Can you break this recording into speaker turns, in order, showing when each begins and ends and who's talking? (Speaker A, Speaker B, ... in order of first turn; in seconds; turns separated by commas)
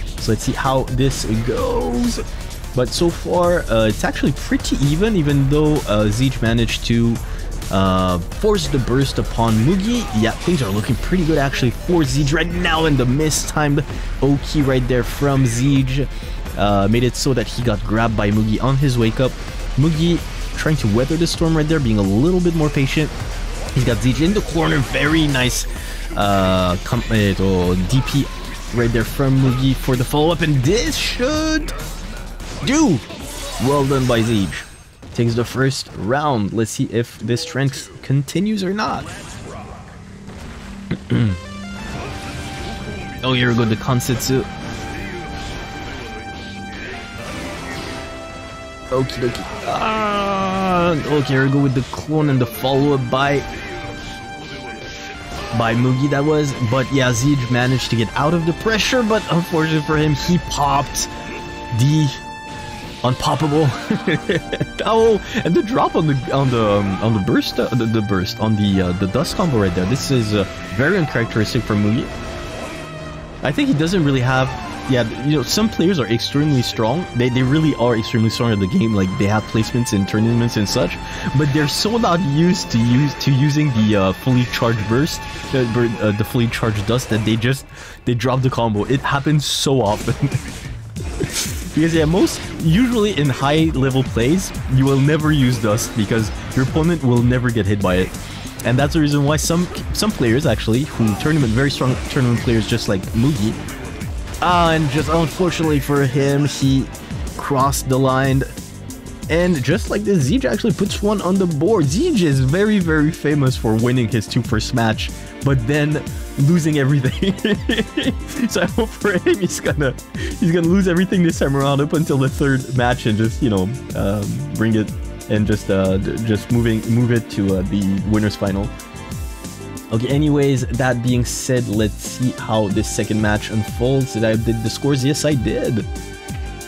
Speaker A: 0.2-23.1, Speaker A: 23.7-31.8, Speaker A: 32.6-33.1, Speaker A: 33.6-39.1, Speaker A: 40.9-41.4, Speaker A: 43.2-44.5, Speaker A: 48.9-53.5, Speaker A: 55.5-61.1, Speaker A: 61.7-62.2, Speaker A: 63.0-72.1, Speaker A: 73.4-90.5, Speaker A: 91.2-98.1, Speaker A: 98.6-103.6, Speaker A: 104.4-108.5, Speaker A: 109.3-128.7, Speaker A: 129.9-135.9